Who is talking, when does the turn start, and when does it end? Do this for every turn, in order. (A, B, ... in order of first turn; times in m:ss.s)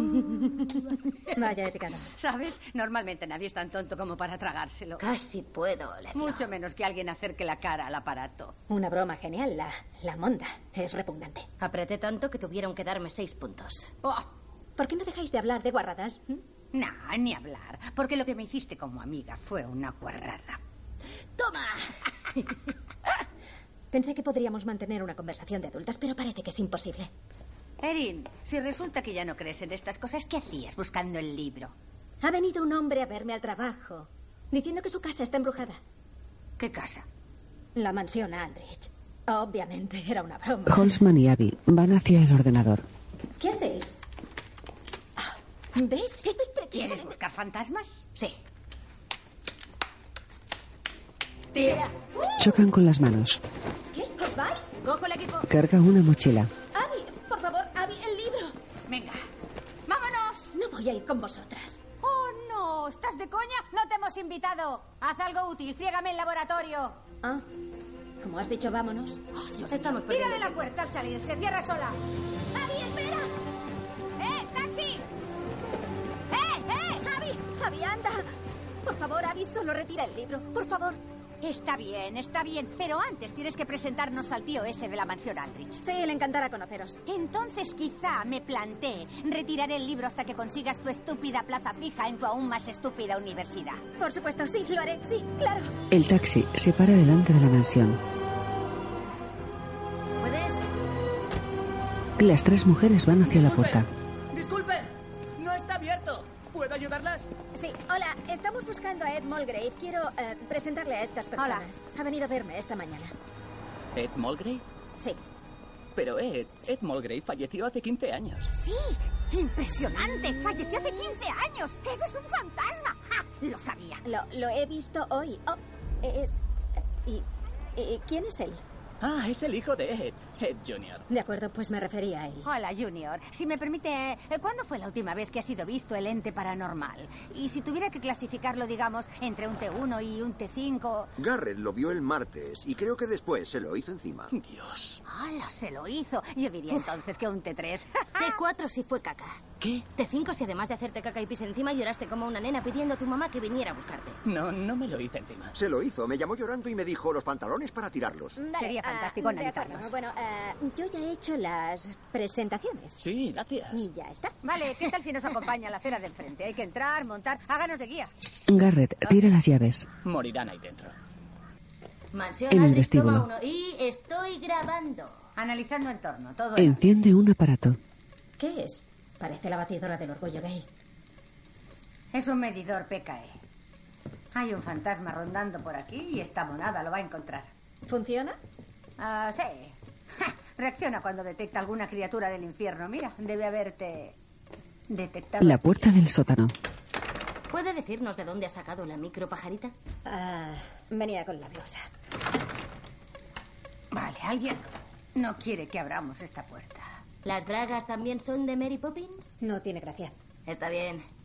0:01.3-0:02.1 A
0:02.1-0:05.0 B
0:05.0-0:06.4 C
0:06.1-0:08.5 B
0:08.7-0:11.5 A
0:11.6-0:13.9 C
0:14.8-0:16.4 A
0:16.7-0:20.6 B
0:21.4-0:21.9 C
0:23.9-0:27.1 A
0:27.8-0:31.7 B
0:32.2-0:35.8 A
0:36.6-0:37.0 B
0:37.8-0:41.0 A
0:40.7-0:42.8 D
0:43.4-0:44.0 A
0:45.2-0:47.2 A
0:46.7-0:48.1 B
0:51.5-0:51.8 B
0:52.4-0:53.4 D
0:53.9-0:54.7 A
0:54.8-0:55.5 C
0:55.5-0:56.5 D
0:56.7-0:58.6 A
0:58.9-0:59.2 B
0:59.9-1:00.5 B
1:00.5-1:01.8 A
1:02.0-1:07.0 B
1:08.2-1:09.2 A
1:09.3-1:12.0 B
1:09.7-1:10.7 C
1:12.5-1:13.3 A
1:14.2-1:15.0 B
1:16.3-1:17.0 B
1:17.0-1:18.3 A
1:18.8-1:21.0 A
1:21.4-1:25.8 B
1:25.8-1:27.0 A
1:27.1-1:33.8 B
1:34.0-1:35.7 A
1:35.9-1:38.0 D
1:40.2-1:40.7 C
1:42.2-1:43.9 D
1:45.4-1:47.2 E
1:47.5-1:53.1 A
1:51.4-1:51.6 B
1:53.9-1:54.6 E
1:56.0-1:58.5 E
1:58.5-2:04.0 B
2:04.0-2:06.4 A
2:06.9-2:08.6 A
2:09.0-2:11.0 E
2:11.1-2:12.5 A
2:12.4-2:21.1 B
2:21.2-2:24.3 F
2:24.3-2:25.0 E
2:25.0-2:28.4 B
2:28.2-2:34.2 C
2:34.2-2:35.5 E
2:35.5-2:38.4 F
2:38.4-2:43.0 A
2:38.6-2:39.9 B
2:43.0-2:43.8 E
2:43.7-2:44.4 A
2:44.4-2:48.1 B
2:48.5-2:49.9 D
2:50.0-2:50.9 E
2:52.1-2:55.2 C
2:52.5-2:53.3 D
2:55.4-2:56.8 B
2:56.6-2:57.8 D
2:58.4-3:00.6 A
3:02.1-3:03.3 B
3:04.3-3:07.5 B
3:07.9-3:08.4 A
3:09.0-3:14.2 B
3:14.9-3:15.7 B
3:15.4-3:16.5 D
3:17.5-3:19.7 C
3:20.0-3:21.8 A
3:23.9-3:26.9 B
3:27.2-3:29.3 C
3:29.4-3:30.1 A
3:30.4-3:31.0 C